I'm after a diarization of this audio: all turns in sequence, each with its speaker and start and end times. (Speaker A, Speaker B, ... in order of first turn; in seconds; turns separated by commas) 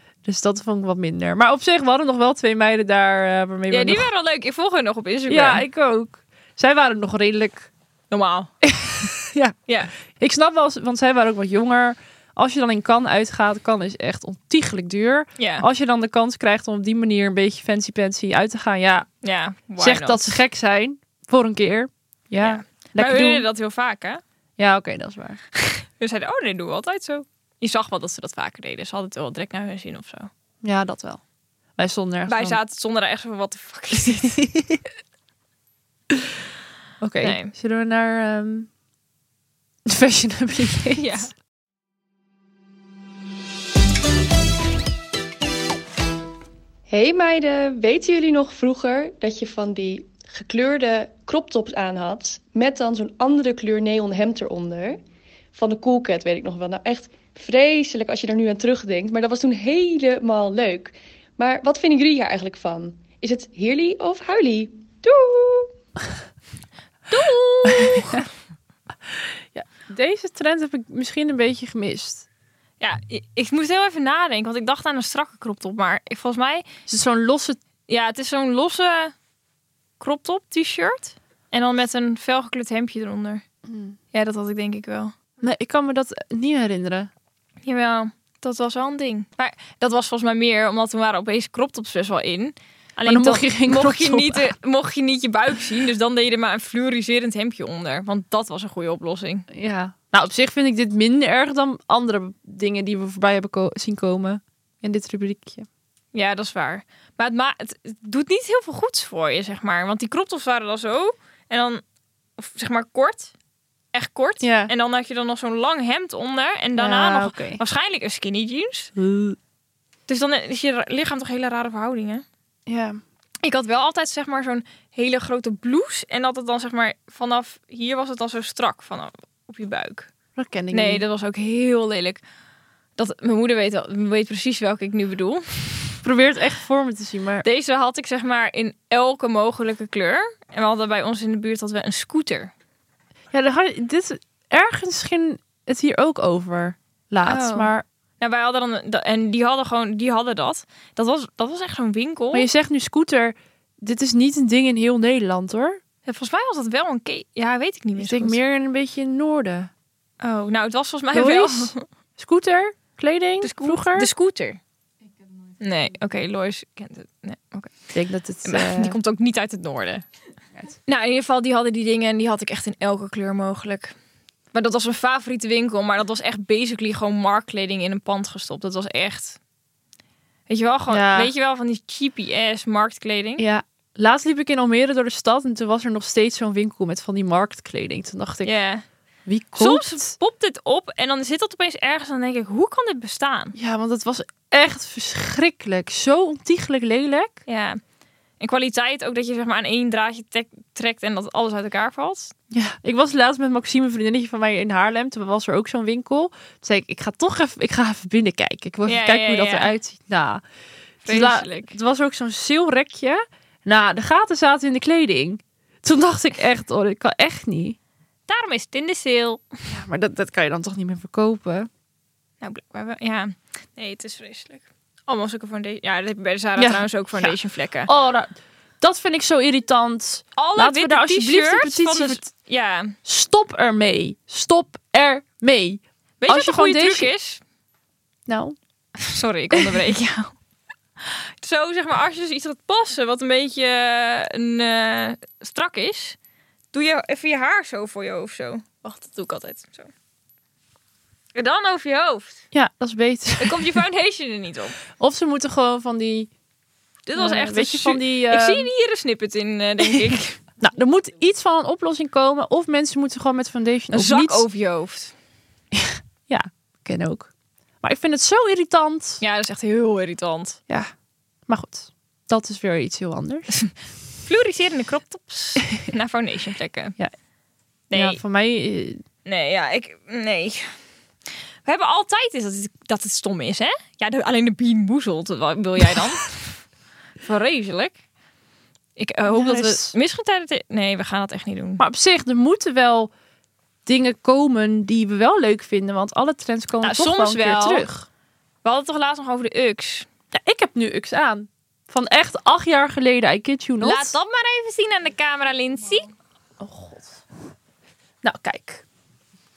Speaker A: 0.2-4.1, Speaker B: 3.7-5.6, Speaker A: 5.3-7.7, Speaker B: 8.1-8.5, Speaker A: 8.6-9.6, Speaker A: 10.1-19.1, Speaker B: 15.4-15.6, Speaker B: 19.2-20.3, Speaker A: 19.8-23.4, Speaker B: 22.4-24.2, Speaker A: 24.6-25.4, Speaker B: 25.6-30.3, Speaker A: 30.6-31.2, Speaker A: 31.8-32.6, Speaker B: 32.3-34.4, Speaker A: 34.0-34.8, Speaker A: 37.0-38.7, Speaker B: 37.2-37.5, Speaker A: 39.9-41.2, Speaker B: 41.0-41.3, Speaker C: 46.9-55.0, Speaker C: 55.5-65.7, Speaker B: 67.1-68.3, Speaker A: 67.7-68.2, Speaker A: 69.5-72.3, Speaker B: 72.8-76.6, Speaker A: 76.9-77.6, Speaker B: 77.9-79.1, Speaker B: 80.0-83.4, Speaker A: 83.7-84.0, Speaker B: 84.1-85.1, Speaker A: 85.4-87.1, Speaker B: 87.6-99.5, Speaker A: 93.0-94.5, Speaker A: 99.5-105.7, Speaker B: 106.1-111.8, Speaker B: 112.4-113.3, Speaker B: 113.9-118.9, Speaker A: 114.4-114.7, Speaker A: 116.8-117.6, Speaker A: 119.0-119.4, Speaker B: 120.1-122.2, Speaker A: 122.7-123.0, Speaker B: 123.4-130.1, Speaker A: 130.3-131.0, Speaker B: 130.7-132.2, Speaker B: 133.0-135.9, Speaker A: 136.0-137.4, Speaker B: 137.4-142.5, Speaker A: 143.3-147.8, Speaker B: 147.2-152.5, Speaker A: 152.3-155.8, Speaker B: 156.1-158.4, Speaker A: 158.0-159.7, Speaker B: 160.2-161.8, Speaker A: 161.1-164.1, Speaker B: 163.4-164.6, Speaker B: 165.6-167.7, Speaker A: 167.9-168.9, Speaker B: 168.4-170.1, Speaker B: 170.7-173.9, Speaker B: 174.5-179.4, Speaker B: 180.5-183.4, Speaker A: 180.9-181.3, Speaker A: 183.4-188.5, Speaker B: 188.4-188.8, Speaker A: 189.2-190.1, Speaker B: 189.6-193.6, Speaker A: 193.6-197.4, Speaker B: 197.4-197.8, Speaker B: 198.4-202.3, Speaker A: 202.5-210.4, Speaker B: 208.8-209.7, Speaker B: 211.0-211.7, Speaker A: 211.1-217.8, Speaker B: 218.3-219.4, Speaker A: 219.7-221.7, Speaker B: 222.4-227.9, Speaker A: 226.6-227.3, Speaker A: 227.9-232.3, Speaker B: 230.4-232.9, Speaker A: 233.0-237.1, Speaker B: 236.2-237.4, Speaker A: 238.3-238.6, Speaker B: 239.0-240.3, Speaker B: 241.0-246.2, Speaker B: 246.7-249.9, Speaker B: 251.3-252.4, Speaker A: 252.5-253.6, Speaker B: 253.4-254.8, Speaker A: 255.0-256.3, Speaker B: 257.1-260.4, Speaker A: 257.1-258.7, Speaker A: 259.9-264.4, Speaker B: 263.9-265.1, Speaker A: 265.7-267.3, Speaker A: 267.8-269.2, Speaker B: 269.2-270.6, Speaker A: 271.5-273.5, Speaker B: 274.2-277.0, Speaker B: 277.9-278.2, Speaker A: 277.9-279.0, Speaker B: 279.2-280.7, Speaker B: 281.6-286.6, Speaker B: 287.2-288.0, Speaker B: 289.0-291.8, Speaker A: 289.3-289.9, Speaker A: 291.8-293.1, Speaker A: 293.9-298.1, Speaker B: 296.8-297.9, Speaker B: 298.6-300.1, Speaker A: 300.3-304.1, Speaker B: 303.8-306.1, Speaker A: 306.6-307.2, Speaker A: 308.2-308.8